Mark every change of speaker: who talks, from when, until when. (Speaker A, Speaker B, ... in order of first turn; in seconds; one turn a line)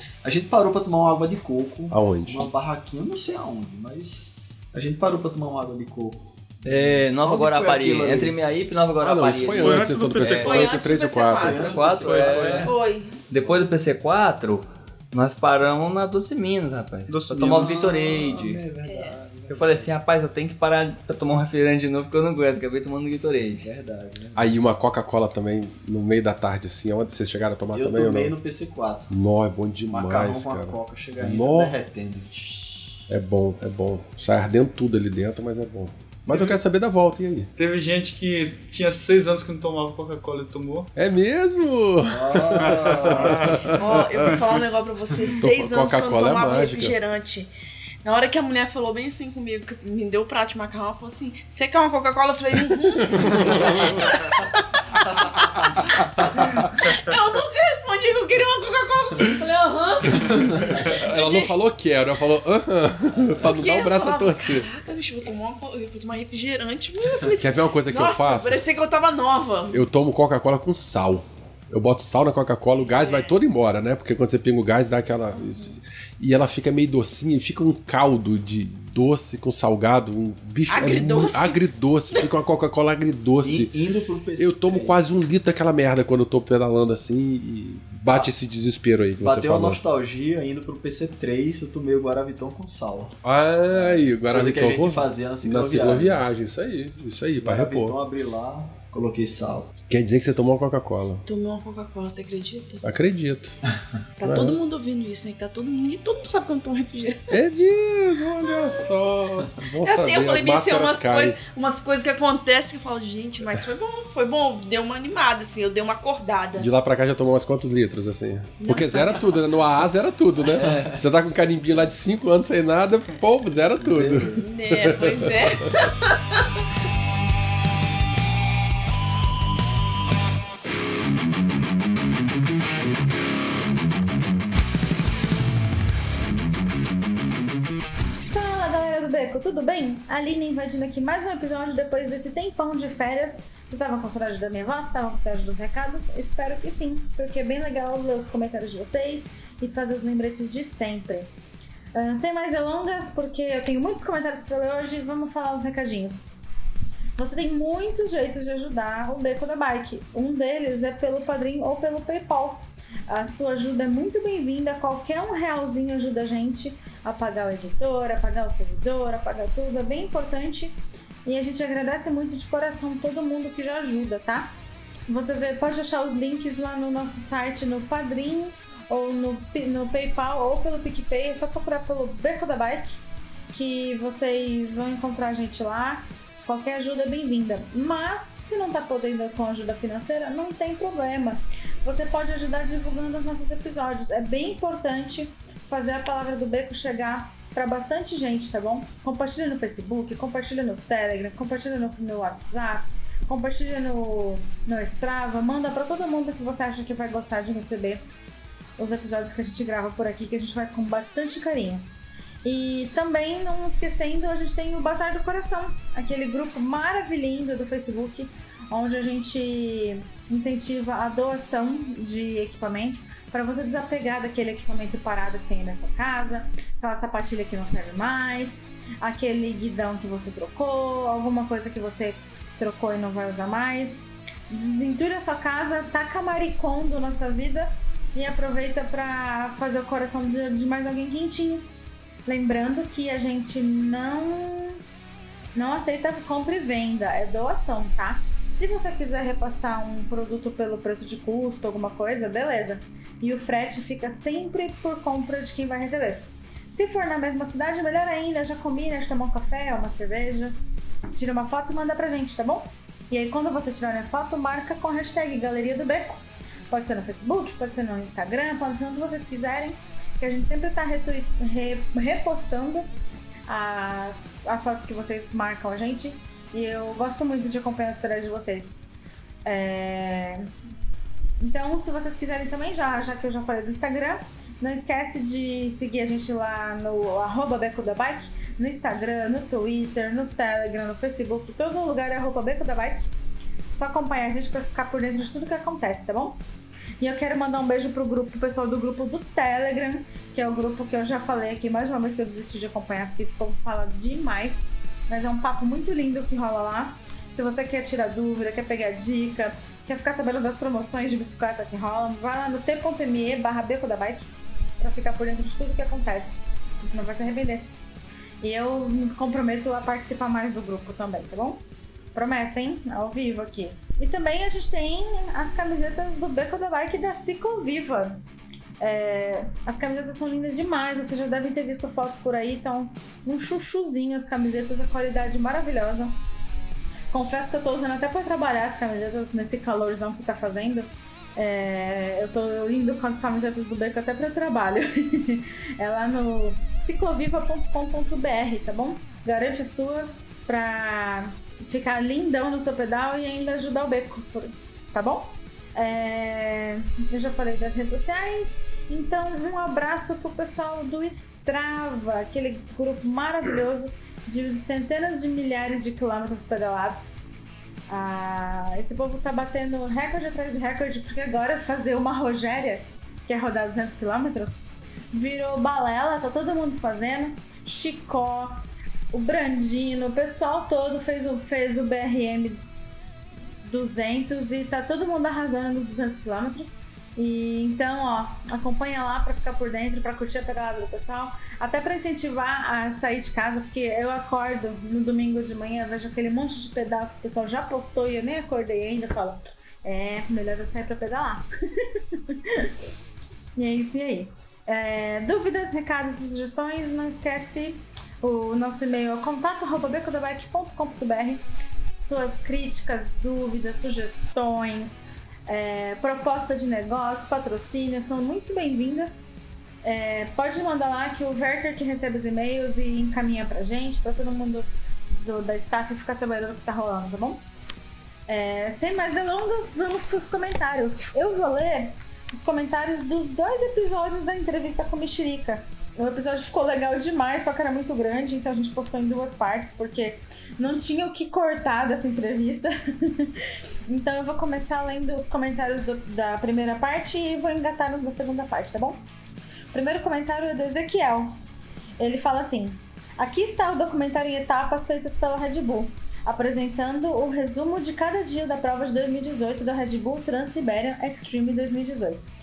Speaker A: 0.2-8.4
Speaker B: 1.9-2.5
Speaker C: 6.7-10.6
Speaker B: 9.0-11.7
Speaker D: 9.4-10.9
Speaker A: 10.2-10.6
Speaker E: 10.3-11.8
Speaker A: 11.2-12.7
Speaker C: 11.5-12.7
Speaker D: 11.7-12.8
Speaker E: 12.7-13.2
Speaker C: 13.3-18.6
Speaker D: 17.1-17.9
Speaker A: 17.5-19.9
Speaker E: 18.9-19.1
Speaker C: 19.5-23.7
Speaker A: 23.6-24.6
Speaker B: 24.4-28.3
Speaker A: 27.7-29.1
Speaker B: 29.1-31.7
Speaker A: 29.9-33.0
Speaker B: 33.1-37.5
Speaker D: 37.6-40.9
Speaker B: 41.0-44.1
Speaker A: 42.0-43.7
Speaker D: 42.7-43.6
Speaker E: 43.7-47.5
Speaker B: 45.4-46.9
Speaker E: 48.0-55.7
Speaker B: 53.7-54.1
Speaker A: 55.1-55.4
Speaker A: 56.2-56.5
Speaker E: 56.3-61.6
Speaker B: 60.1-64.7
Speaker E: 63.4-69.9
Speaker B: 67.4-68.6
Speaker B: 69.7-83.7
Speaker E: 72.9-73.3
Speaker E: 75.3-75.8
Speaker E: 80.7-82.3
Speaker A: 83.4-85.2
Speaker B: 84.4-89.8
Speaker A: 89.2-93.2
Speaker B: 93.2-98.0
Speaker A: 93.7-96.2
Speaker A: 97.4-99.7
Speaker B: 99.9-101.2
Speaker E: 101.3-102.8
Speaker B: 102.8-103.6
Speaker E: 104.2-107.4
Speaker B: 104.2-104.6
Speaker B: 107.3-111.4
Speaker E: 109.8-116.7
Speaker B: 116.6-125.7
Speaker E: 118.6-119.3
Speaker A: 120.5-121.0
Speaker A: 123.8-124.4
Speaker E: 124.4-126.4
Speaker F: 138.3-151.3
Speaker F: 151.9-156.2
Speaker F: 157.2-174.5
Speaker F: 175.1-183.0
Speaker F: 183.5-208.0
Speaker F: 208.8-211.9
Speaker F: 212.4-241.7
Speaker F: 242.3-244.8
Speaker F: 245.6-260.6
Speaker F: 261.1-266.2
Speaker F: 266.7-272.9
Speaker F: 273.5-278.8
Speaker F: 279.4-280.5
Speaker F: 281.4-293.1
Speaker F: 293.7-296.4
Speaker F: 297.0-314.3
Speaker F: 314.8-317.7
Speaker F: 318.4-321.6
Speaker F: 322.1-328.2
Speaker F: 328.8-336.1
Speaker F: 337.1-367.1
Speaker F: 367.9-374.6
Speaker F: 375.1-378.6
Speaker F: 379.1-382.6
Speaker F: 383.6-402.7
Speaker F: 403.6-411.4
Speaker F: 412.0-419.2
Speaker F: 419.8-427.4
Speaker F: 428.3-443.3
Speaker F: 443.9-449.0
Speaker F: 449.7-451.4
Speaker F: 452.0-462.2